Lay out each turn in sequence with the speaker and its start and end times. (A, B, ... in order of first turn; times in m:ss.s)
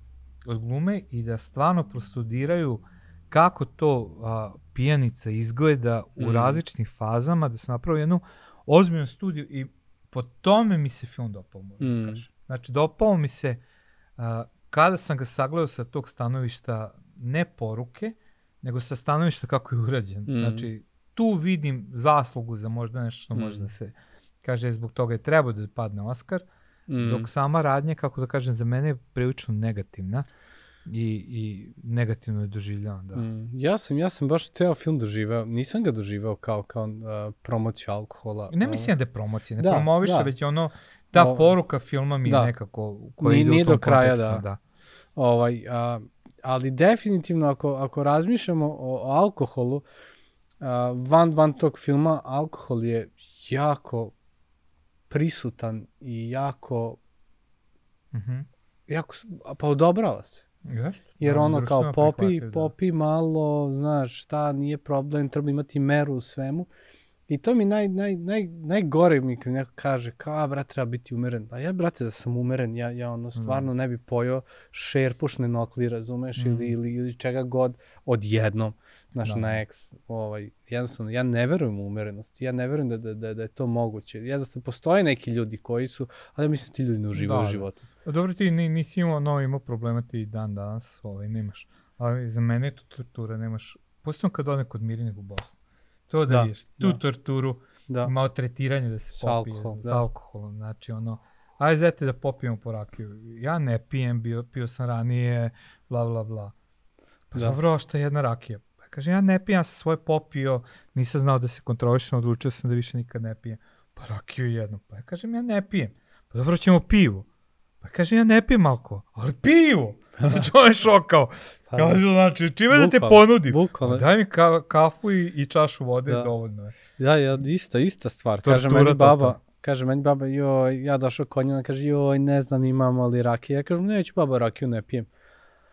0:00.4-0:13.6 A
0:06.2-0:06.6 B
0:11.8-0:12.3 B
0:14.2-0:26.5 A
0:20.3-0:20.7 B
0:23.3-0:23.7 B
0:26.9-0:27.3 B
0:27.0-0:30.3 A
0:30.9-0:33.3 A
0:33.1-0:38.9 B
0:38.5-0:44.6 A
0:39.6-0:40.3 B
0:41.2-0:41.5 B
0:42.2-0:42.5 B
0:43.2-0:44.4 B
0:45.2-0:49.8 B
0:50.6-0:54.1 B
0:55.1-0:57.0 B
0:58.1-0:58.5 A
0:58.9-1:00.4 B
1:00.7-1:02.7 A
1:01.2-1:06.7 B
1:07.3-1:27.8 B
1:13.4-1:13.7 A
1:16.4-1:16.8 A
1:19.2-1:19.6 A
1:27.2-1:35.6 A
1:36.1-1:46.6 A
1:36.3-1:37.0 B
1:37.9-1:38.1 B
1:39.2-1:40.0 B
1:47.3-1:57.3 A
1:57.8-2:06.8 A
2:01.7-2:02.0 B
2:02.7-2:04.1 B
2:07.0-2:15.1 B
2:08.4-2:09.4 A